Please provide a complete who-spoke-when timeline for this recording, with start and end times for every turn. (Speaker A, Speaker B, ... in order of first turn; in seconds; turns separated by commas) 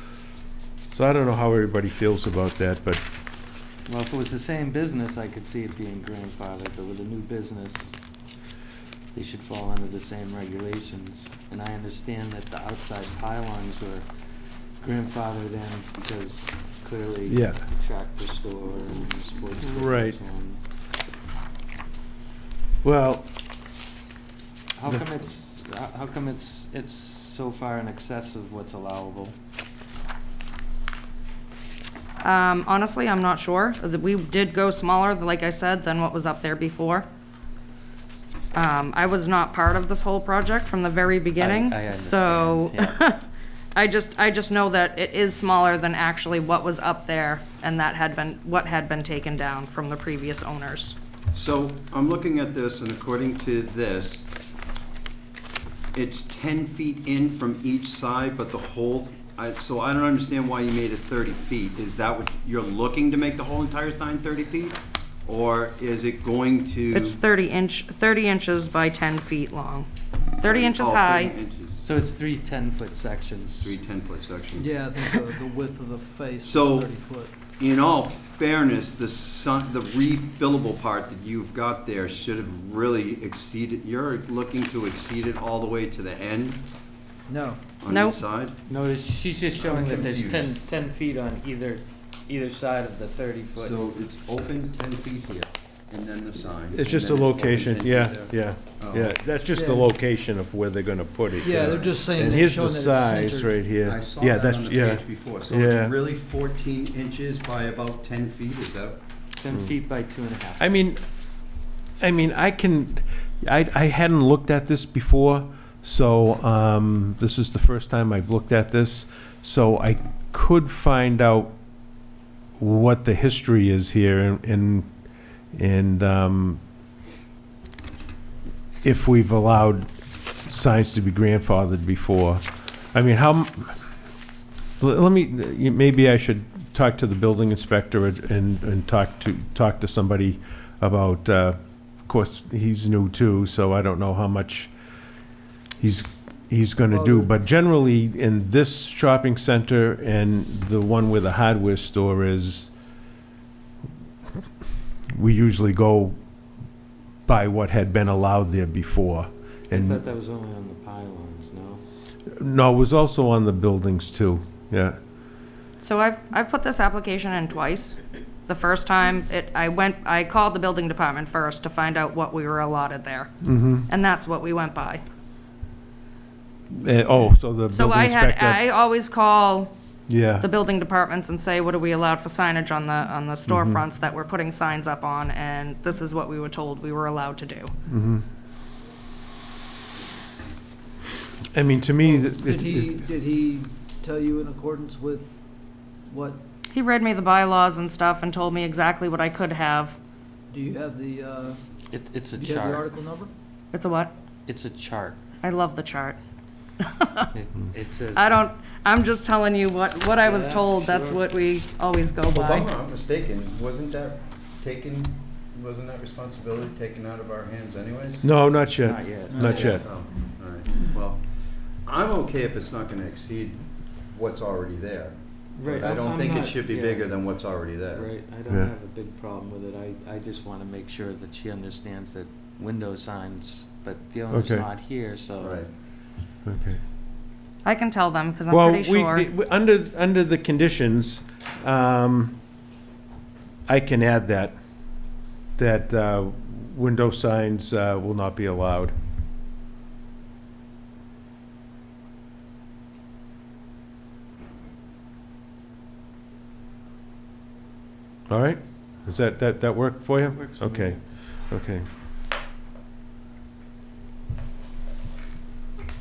Speaker A: 0.9-3.0, Speaker B: 3.9-8.0, Speaker B: 9.1-14.1, Speaker B: 14.8-20.6, Speaker A: 17.3-17.6, Speaker A: 19.6-20.2, Speaker A: 22.8-23.3, Speaker B: 24.8-29.4, Speaker C: 32.2-37.1, Speaker C: 38.5-43.2, Speaker B: 41.4-43.2, Speaker C: 43.8-51.0, Speaker D: 51.3-54.3, Speaker D: 55.9-67.2, Speaker C: 66.9-69.9, Speaker C: 70.4-71.3, Speaker D: 70.4-71.8, Speaker B: 71.8-73.8, Speaker D: 73.6-74.8, Speaker E: 74.5-77.3, Speaker D: 76.4-76.9, Speaker D: 77.5-86.6, Speaker E: 87.3-87.6, Speaker D: 87.8-88.6, Speaker C: 87.9-88.2, Speaker B: 88.7-93.8, Speaker D: 89.6-90.6, Speaker D: 93.6-99.2, Speaker A: 96.7-105.9, Speaker E: 99.5-99.9, Speaker E: 101.4-103.7, Speaker D: 101.7-101.9, Speaker D: 103.8-109.0, Speaker B: 109.4-110.6, Speaker A: 110.6-111.0, Speaker A: 112.0-121.6, Speaker A: 122.6-124.9, Speaker A: 125.5-126.6, Speaker A: 128.8-129.9, Speaker A: 130.4-132.4, Speaker A: 132.9-133.8, Speaker A: 134.8-144.7, Speaker A: 145.8-152.7, Speaker E: 146.9-147.3, Speaker A: 155.1-156.2, Speaker A: 157.3-160.0, Speaker B: 159.7-161.8, Speaker A: 162.4-165.0, Speaker C: 165.8-173.3, Speaker A: 173.4-173.9, Speaker C: 173.9-175.0, Speaker A: 176.7-178.6, Speaker C: 177.7-179.7, Speaker A: 180.1-180.5, Speaker C: 180.4-187.7, Speaker A: 183.5-183.8, Speaker A: 187.9-188.2, Speaker A: 191.5-193.0, Speaker E: 192.0-196.4, Speaker C: 196.7-200.0, Speaker E: 200.5-201.6, Speaker B: 201.9-202.9, Speaker E: 202.3-203.3, Speaker C: 203.7-204.1, Speaker B: 204.5-205.2, Speaker C: 205.4-206.2, Speaker C: 206.8-207.3, Speaker B: 207.3-208.4, Speaker C: 208.2-212.7, Speaker B: 210.2-211.3, Speaker D: 212.3-218.3, Speaker A: 218.2-219.8, Speaker B: 218.8-219.8, Speaker E: 219.3-219.7, Speaker D: 219.4-221.3, Speaker D: 221.8-228.1, Speaker B: 225.6-227.2, Speaker B: 227.9-235.6, Speaker A: 234.3-234.7, Speaker D: 235.4-235.7, Speaker A: 236.4-236.8, Speaker C: 237.7-239.3, Speaker A: 238.5-242.4, Speaker A: 243.7-244.6, Speaker A: 245.6-248.9, Speaker A: 258.3-261.9, Speaker B: 260.4-261.0